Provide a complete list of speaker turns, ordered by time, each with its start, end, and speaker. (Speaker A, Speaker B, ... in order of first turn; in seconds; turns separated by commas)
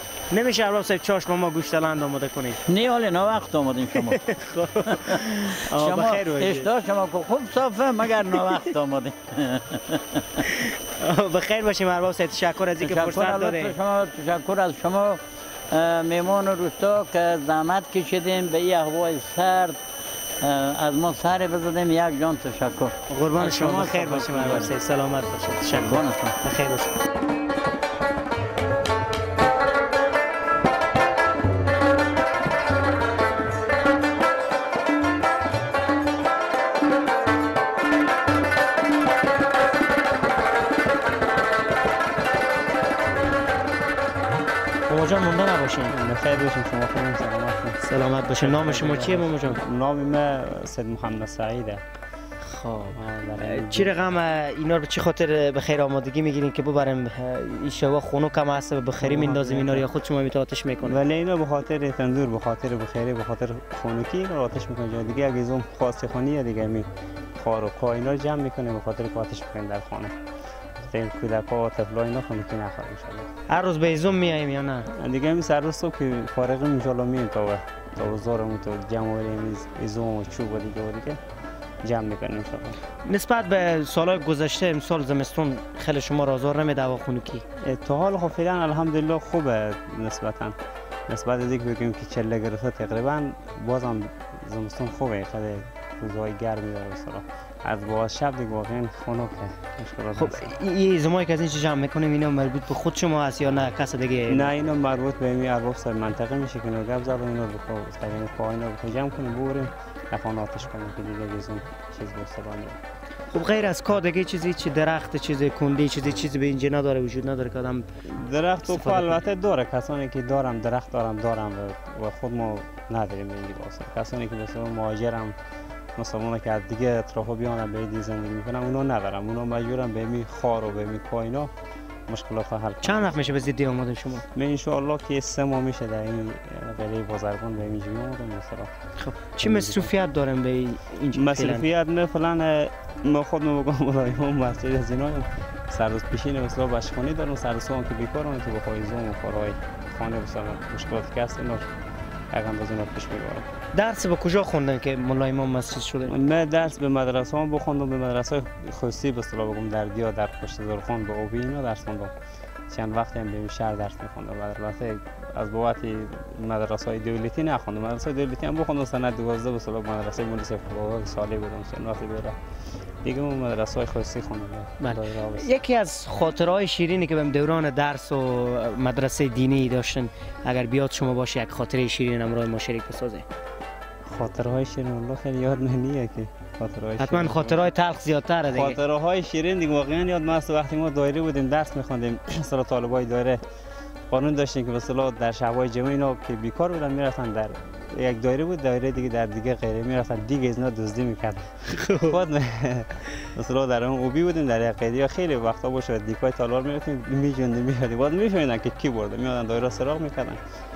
Speaker A: 0.3-2.6, Speaker B: 2.6-4.2, Speaker A: 4.1-6.7, Speaker B: 4.8-10.5, Speaker A: 10.5-13.8, Speaker B: 12.8-19.8, Speaker B: 20.4-24.7, Speaker A: 23.1-26.9, Speaker B: 25.7-26.4, Speaker A: 44.9-45.9, Speaker C: 45.9-47.8, Speaker A: 47.8-49.6, Speaker C: 48.4-51.8, Speaker A: 52.4-61.0, Speaker C: 52.9-53.9, Speaker C: 59.0-59.9, Speaker C: 60.8-70.1, Speaker C: 70.8-73.3, Speaker A: 73.5-74.9, Speaker C: 74.9-81.2, Speaker C: 81.8-82.8, Speaker A: 83.0-87.4, Speaker C: 87.6-90.6, Speaker C: 91.1-100.5, Speaker A: 100.2-104.5, Speaker C: 104.3-112.8, Speaker A: 113.3-117.8, Speaker C: 118.0-125.3, Speaker A: 118.7-119.2, Speaker C: 126.0-131.5, Speaker C: 132.1-133.1, Speaker A: 132.8-134.2, Speaker C: 134.3-138.7, Speaker A: 139.0-141.7, Speaker C: 139.4-139.9, Speaker C: 141.1-151.7, Speaker C: 152.3-153.4, Speaker A: 153.7-156.1, Speaker C: 156.0-162.1, Speaker C: 162.7-172.4, Speaker C: 173.0-175.5, Speaker A: 174.8-183.2, Speaker C: 184.1-187.7, Speaker A: 187.0-188.8, Speaker C: 188.4-193.4, Speaker C: 194.1-210.4, Speaker A: 201.7-202.2